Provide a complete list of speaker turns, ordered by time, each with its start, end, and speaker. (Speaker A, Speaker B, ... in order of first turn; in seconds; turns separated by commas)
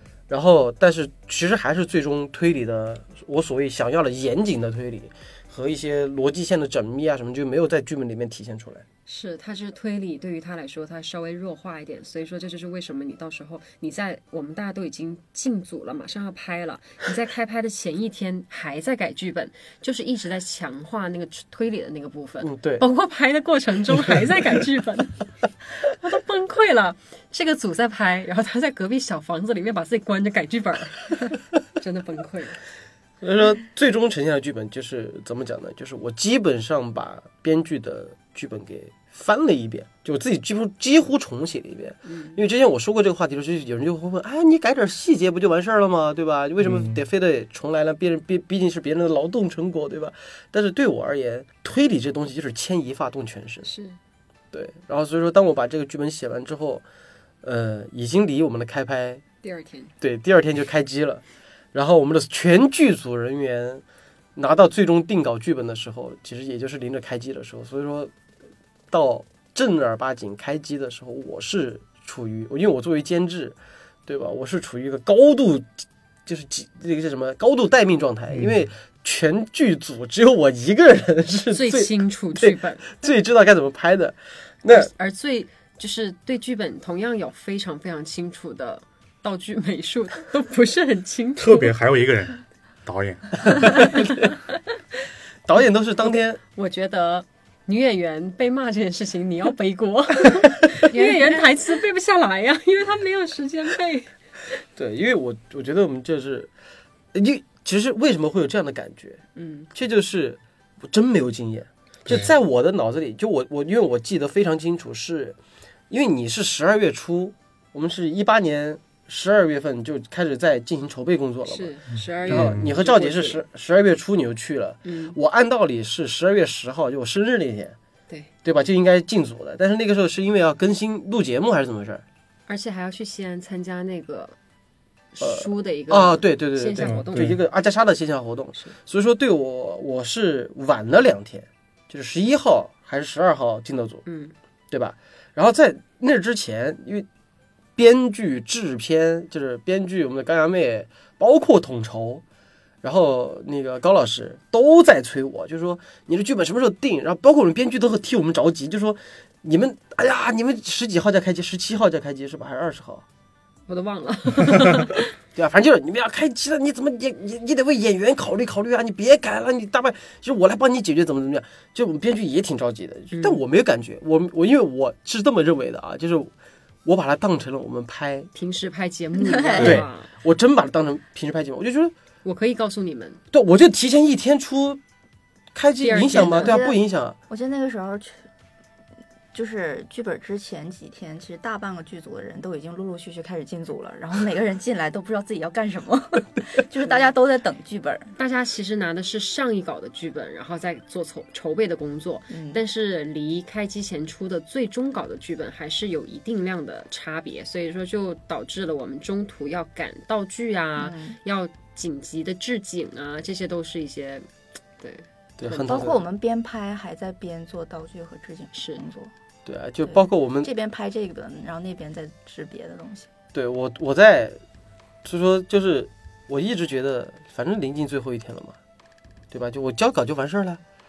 Speaker A: 0.3-8.8, Speaker B: 9.1-25.2, Speaker A: 22.4-22.9, Speaker B: 25.9-32.6, Speaker A: 33.2-53.7, Speaker B: 42.1-42.4, Speaker C: 46.6-47.0, Speaker B: 53.6-54.0, Speaker A: 54.5-56.8, Speaker A: 57.4-59.2, Speaker B: 59.4-59.9, Speaker A: 60.0-61.2, Speaker A: 61.7-63.8, Speaker A: 64.4-68.1, Speaker A: 68.9-73.6, Speaker A: 74.1-75.7, Speaker A: 76.3-84.9, Speaker C: 78.3-78.7, Speaker B: 81.5-82.9, Speaker B: 84.7-91.7, Speaker C: 91.4-94.0, Speaker A: 93.9-94.3, Speaker A: 95.5-96.4, Speaker B: 96.6-104.1, Speaker A: 104.8-106.5, Speaker A: 107.1-109.2, Speaker B: 109.4-109.7, Speaker A: 109.7-115.4, Speaker C: 112.1-112.3, Speaker A: 115.9-121.7, Speaker B: 121.5-123.4, Speaker C: 121.9-122.8, Speaker A: 122.3-127.8, Speaker B: 124.8-125.2, Speaker A: 128.4-132.0, Speaker B: 132.5-134.3, Speaker B: 135.1-137.4, Speaker A: 135.2-144.0, Speaker C: 136.8-137.4, Speaker B: 144.1-144.3, Speaker A: 144.7-147.1, Speaker A: 147.8-152.2, Speaker A: 152.8-163.0, Speaker B: 163.7-165.1, Speaker A: 165.3-176.3, Speaker B: 173.1-173.4, Speaker A: 176.8-178.3, Speaker B: 178.3-180.1, Speaker D: 179.2-179.7, Speaker A: 179.6-181.9, Speaker B: 182.2-183.2, Speaker A: 183.3-184.8, Speaker A: 185.6-187.2, Speaker B: 185.8-186.6, Speaker D: 186.0-188.3, Speaker D: 189.3-198.2, Speaker B: 198.2-214.3, Speaker D: 202.3-202.6, Speaker D: 210.8-211.2, Speaker B: 214.8-215.9, Speaker A: 215.4-216.0, Speaker D: 215.6-219.1, Speaker B: 218.5-218.8, Speaker A: 219.5-220.5, Speaker D: 219.9-223.1, Speaker A: 223.3-224.4, Speaker A: 225.1-228.6, Speaker A: 229.3-230.6